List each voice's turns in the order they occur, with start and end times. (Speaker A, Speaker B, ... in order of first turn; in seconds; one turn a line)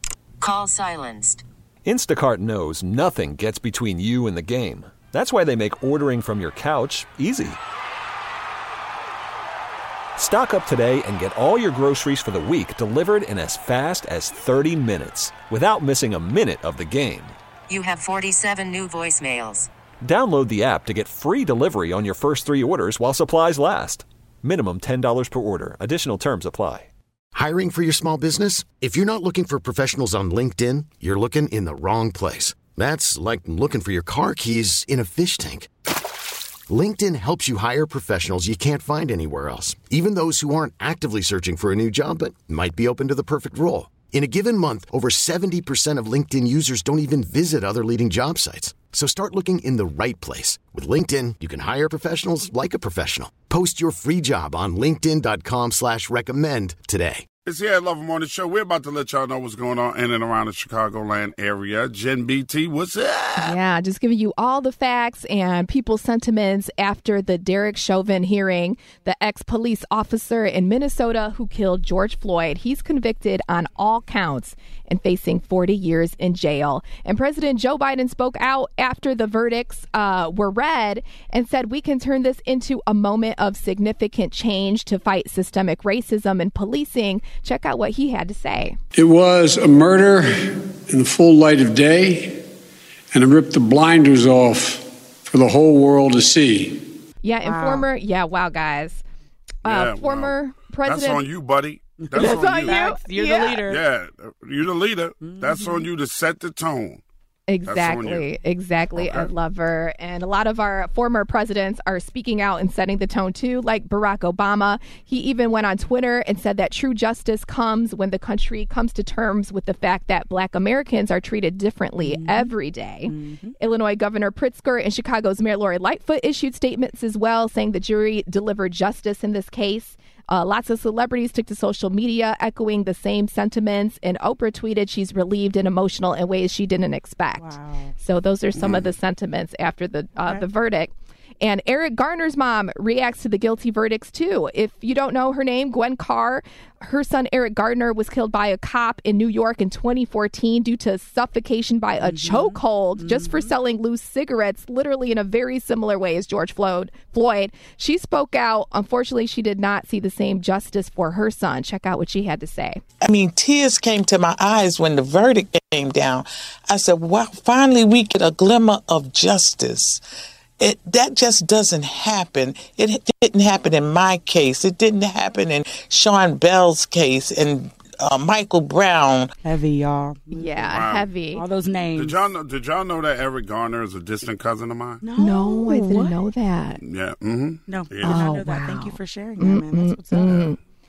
Speaker A: 0.4-1.4
Speaker B: 1.9-7.6
Speaker B: 10.2-17.4
Speaker A: 17.7-19.7
Speaker B: 20.0-26.9
Speaker C: 27.3-35.7
Speaker C: 36.7-57.2
Speaker D: 57.5-63.6
Speaker E: 63.4-88.8
Speaker F: 89.0-92.4
Speaker F: 93.1-96.8
Speaker E: 97.2-99.0
Speaker G: 97.4-97.9
Speaker E: 99.6-101.2
Speaker D: 99.6-102.8
Speaker G: 102.0-103.8
Speaker E: 102.1-103.6
Speaker D: 103.6-107.0
Speaker G: 105.2-105.8
Speaker E: 107.5-162.8
Speaker D: 107.6-108.3
Speaker D: 109.0-109.3
Speaker G: 122.0-122.5
Speaker G: 123.0-123.6
Speaker G: 137.4-137.9
Speaker D: 138.6-138.8
Speaker G: 152.0-153.5
Speaker H: 163.0-170.0
Speaker H: 170.6-179.3
Speaker G: 179.4-180.7
Speaker E: 180.3-181.5
Speaker D: 180.7-181.1
Speaker G: 181.3-182.2
Speaker D: 181.9-185.0
Speaker G: 185.0-186.2
Speaker E: 185.2-186.8
Speaker D: 186.8-188.2
Speaker G: 187.7-190.4
Speaker E: 188.0-190.6
Speaker D: 190.2-190.5